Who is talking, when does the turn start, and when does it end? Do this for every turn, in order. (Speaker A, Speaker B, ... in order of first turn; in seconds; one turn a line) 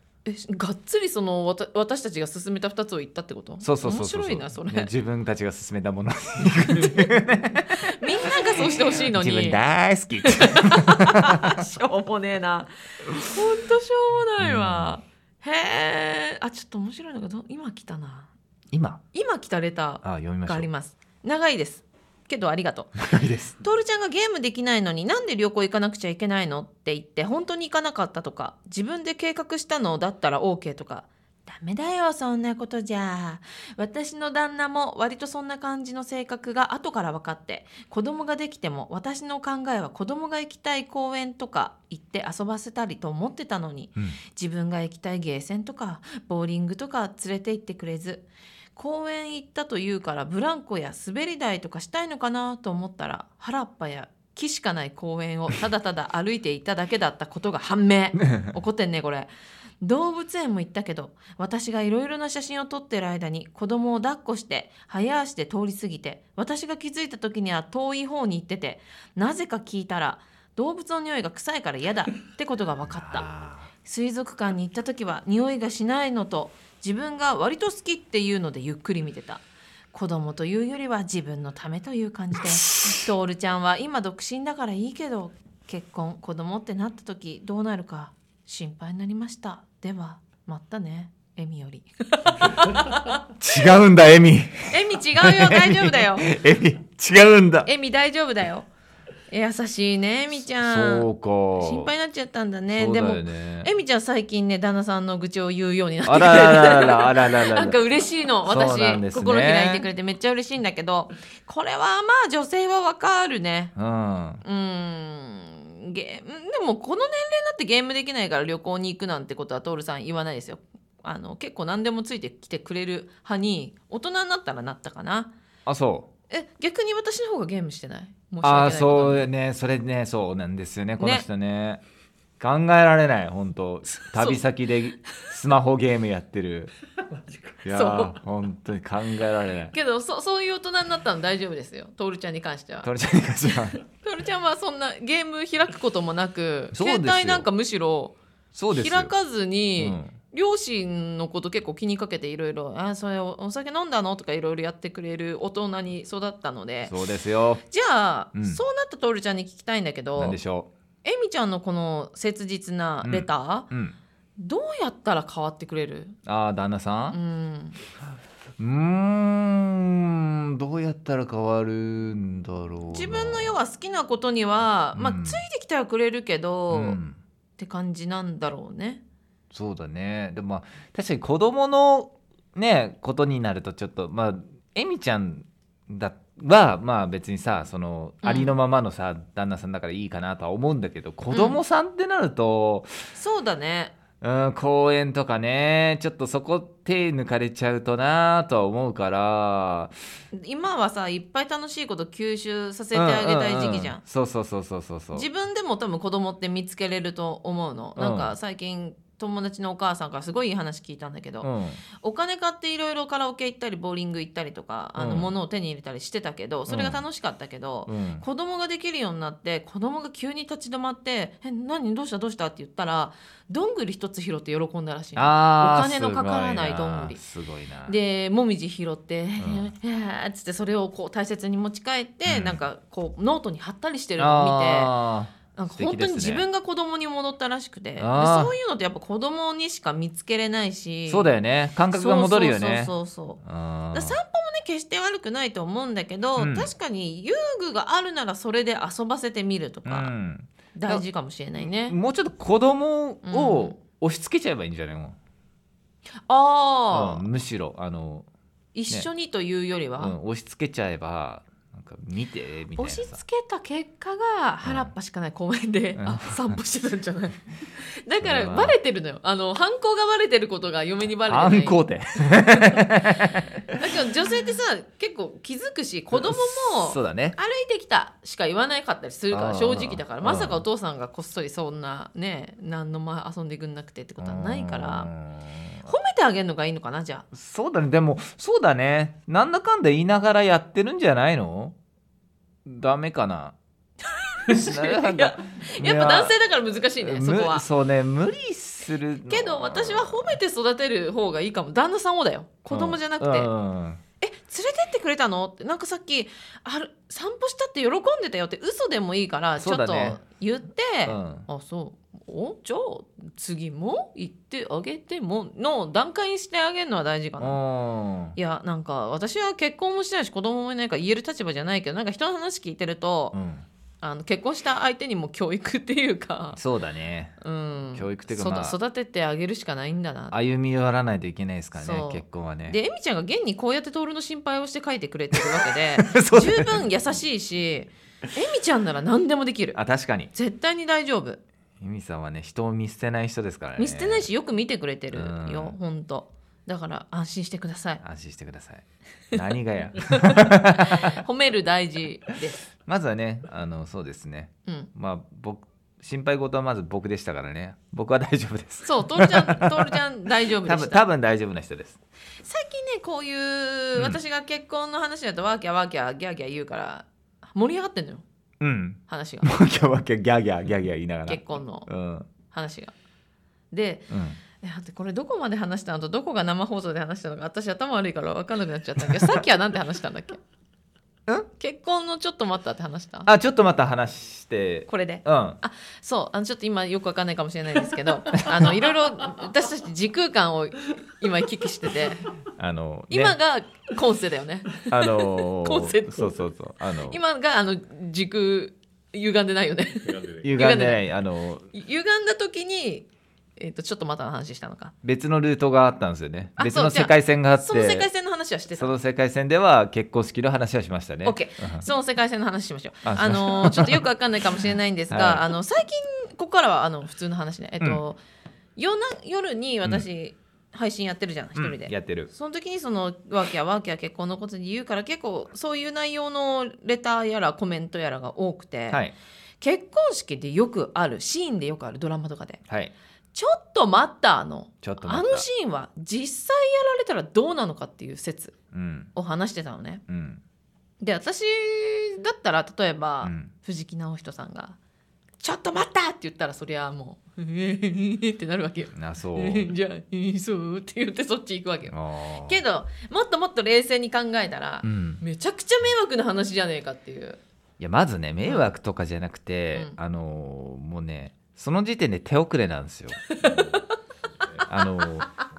Speaker A: 0.2-4.9
Speaker B: 3.6-11.5
Speaker A: 7.7-9.6
Speaker A: 10.2-18.3
Speaker B: 14.4-14.9
Speaker B: 18.7-19.0
Speaker A: 19.1-23.0
Speaker B: 20.0-20.7
Speaker B: 23.0-23.6
Speaker A: 23.6-59.3
Speaker A: 59.8-73.3
Speaker B: 72.9-73.7
Speaker A: 73.8-93.2
Speaker B: 82.4-82.9
Speaker B: 93.3-97.7
Speaker A: 94.7-96.3
Speaker A: 97.7-98.7
Speaker A: 99.3-113.7
Speaker B: 100.5-101.9
Speaker B: 102.7-103.7
Speaker B: 106.0-107.8
Speaker B: 108.5-109.9
Speaker B: 113.8-114.4
Speaker A: 114.4-125.3
Speaker B: 125.7-126.1
Speaker A: 126.3-129.3
Speaker B: 128.4-131.8
Speaker A: 131.0-131.3
Speaker B: 132.4-136.7
Speaker A: 134.1-134.4
Speaker B: 137.6-139.7
Speaker A: 137.7-138.2
Speaker A: 139.7-142.9
Speaker B: 142.8-143.8
Speaker A: 143.8-148.2
Speaker B: 146.7-147.5
Speaker B: 148.5-149.1
Speaker A: 148.7-157.0
Speaker B: 149.8-150.1
Speaker B: 156.9-157.6
Speaker A: 157.7-160.4
Speaker B: 158.3-158.6
Speaker B: 160.2-160.7
Speaker A: 161.0-163.7
Speaker B: 163.0-164.0
Speaker A: 164.4-166.2
Speaker B: 166.3-167.2
Speaker A: 167.1-167.8
Speaker B: 168.6-173.5
Speaker A: 172.9-177.0
Speaker B: 174.9-175.4
Speaker B: 176.7-177.2
Speaker A: 177.6-179.0
Speaker B: 179.5-192.9
Speaker A: 188.2-188.6
Speaker A: 191.3-191.6
Speaker A: 193.2-193.9
Speaker B: 194.2-199.9
Speaker A: 200.3-204.0
Speaker B: 202.9-205.3
Speaker A: 205.1-227.2
Speaker B: 208.0-208.3
Speaker B: 211.4-211.8
Speaker B: 215.0-215.3
Speaker B: 216.7-217.0
Speaker B: 217.9-218.2
Speaker B: 225.2-228.0
Speaker A: 227.9-234.9
Speaker B: 229.4-229.7
Speaker B: 232.3-232.6
Speaker B: 234.2-236.4
Speaker A: 235.5-241.3
Speaker B: 238.0-238.5
Speaker B: 241.1-242.9
Speaker A: 241.9-250.1
Speaker B: 243.4-244.2
Speaker B: 246.4-246.7
Speaker B: 249.9-251.1
Speaker A: 250.8-252.0
Speaker B: 251.6-255.2
Speaker A: 253.2-253.8
Speaker A: 256.3-257.2
Speaker B: 256.9-258.3
Speaker A: 258.8-260.1
Speaker B: 260.0-263.2
Speaker A: 262.8-285.1
Speaker B: 264.6-264.9
Speaker B: 266.0-266.6
Speaker B: 268.2-268.8
Speaker B: 271.2-273.9
Speaker B: 276.1-277.4
Speaker B: 279.3-280.6
Speaker B: 284.2-285.9
Speaker A: 285.9-287.3
Speaker B: 287.3-291.8
Speaker B: 292.7-293.6
Speaker A: 294.3-297.7
Speaker B: 294.5-296.4
Speaker B: 297.0-300.4
Speaker A: 299.2-303.5
Speaker B: 302.7-304.0
Speaker A: 304.2-317.6
Speaker B: 309.6-310.2
Speaker B: 311.1-311.5
Speaker B: 317.4-318.4
Speaker A: 318.4-323.4
Speaker B: 323.3-323.7
Speaker A: 324.0-326.6
Speaker B: 326.6-327.4
Speaker A: 327.4-330.4
Speaker B: 327.9-328.8
Speaker B: 330.3-332.8
Speaker A: 331.8-339.8
Speaker B: 335.4-336.9
Speaker B: 339.8-340.3
Speaker A: 340.3-341.4
Speaker B: 341.8-344.3
Speaker A: 343.8-348.0
Speaker B: 345.1-345.8
Speaker B: 348.0-351.2
Speaker A: 350.1-352.6
Speaker B: 352.9-362.0
Speaker A: 358.8-361.0
Speaker A: 362.4-368.2
Speaker B: 368.6-372.3
Speaker A: 369.1-369.7
Speaker A: 371.3-371.9
Speaker A: 372.5-372.9
Speaker A: 373.7-380.4
Speaker B: 374.1-374.4
Speaker A: 381.6-383.3
Speaker B: 383.3-385.6
Speaker A: 384.9-392.3
Speaker B: 392.6-393.4
Speaker A: 393.1-396.4
Speaker B: 394.9-397.2
Speaker A: 397.1-401.0
Speaker B: 400.4-401.7
Speaker A: 401.7-404.9
Speaker B: 405.0-408.1
Speaker A: 406.6-408.9
Speaker B: 408.8-411.9
Speaker A: 411.2-418.2
Speaker B: 413.1-414.1
Speaker B: 415.1-415.5
Speaker A: 418.8-429.0
Speaker B: 421.6-422.3
Speaker B: 428.9-429.1
Speaker A: 429.6-432.6
Speaker B: 432.7-432.9
Speaker A: 433.3-438.6
Speaker B: 434.8-435.5
Speaker B: 438.7-439.1
Speaker A: 439.1-440.0
Speaker B: 440.1-440.4
Speaker A: 441.0-444.8
Speaker B: 443.2-443.5
Speaker A: 445.4-457.4
Speaker B: 448.9-449.7
Speaker B: 451.9-452.6
Speaker B: 454.8-455.2
Speaker B: 457.8-463.7
Speaker A: 458.4-458.7
Speaker A: 463.3-463.9
Speaker B: 464.6-465.4